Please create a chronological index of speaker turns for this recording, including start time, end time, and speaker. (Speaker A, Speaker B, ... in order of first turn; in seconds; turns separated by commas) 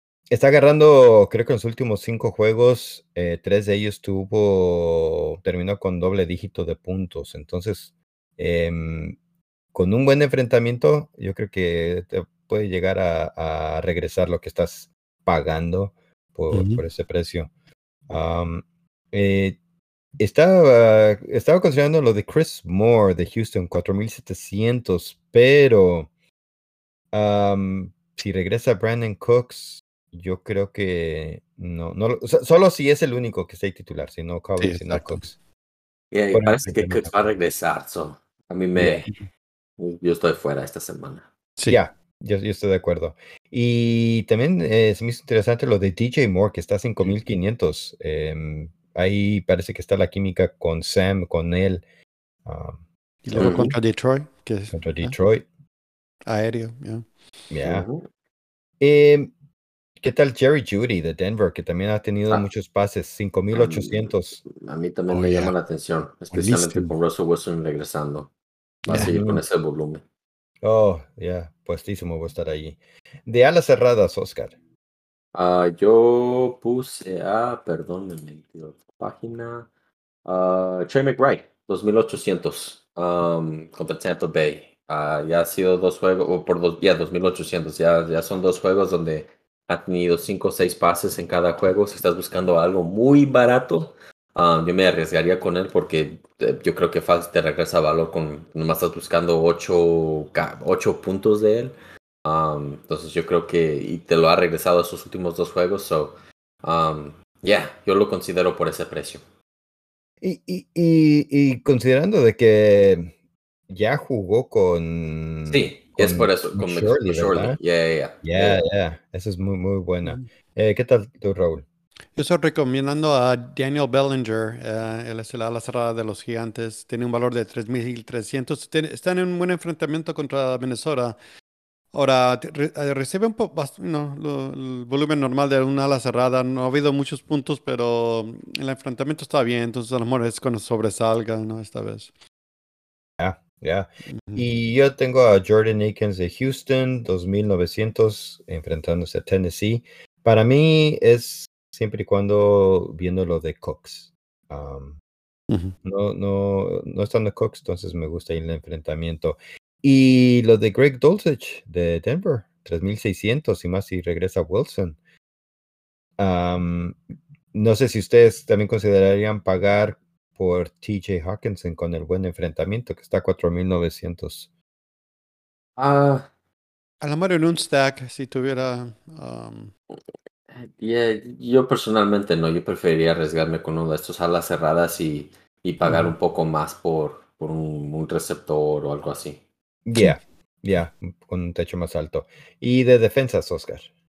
Speaker A: 0.3-9.2, Speaker A: 9.7-17.5, Speaker B: 16.5-16.8, Speaker A: 18.1-19.6, Speaker A: 20.2-26.1, Speaker A: 27.1-35.3, Speaker B: 34.6-35.3, Speaker C: 36.1-39.1, Speaker A: 36.3-37.1, Speaker B: 38.8-39.2, Speaker C: 39.8-41.3, Speaker A: 41.7-51.8, Speaker A: 52.5-53.6, Speaker B: 53.2-55.2, Speaker C: 53.4-53.8, Speaker A: 54.7-55.4, Speaker B: 56.3-57.0, Speaker A: 57.5-57.9, Speaker C: 57.6-58.0, Speaker A: 58.8-59.3, Speaker A: 60.0-64.4, Speaker C: 63.5-68.3, Speaker B: 65.1-65.5, Speaker B: 66.3-66.9, Speaker B: 68.8-69.2, Speaker C: 68.8-70.0, Speaker A: 68.9-69.4, Speaker A: 70.6-74.5, Speaker C: 75.3-79.7, Speaker C: 80.2-109.2, Speaker A: 110.2-113.1, Speaker A: 113.7-117.6, Speaker C: 115.5-118.6, Speaker A: 118.2-121.6, Speaker B: 122.1-131.2, Speaker B: 131.9-142.1, Speaker A: 143.2-154.9, Speaker B: 144.1-144.4, Speaker B: 155.5-155.7, Speaker A: 155.8-165.0, Speaker A: 166.2-167.0, Speaker A: 167.5-174.5, Speaker C: 175.8-176.3, Speaker B: 177.0-179.7, Speaker C: 180.5-189.4, Speaker B: 185.8-186.1, Speaker A: 189.8-193.8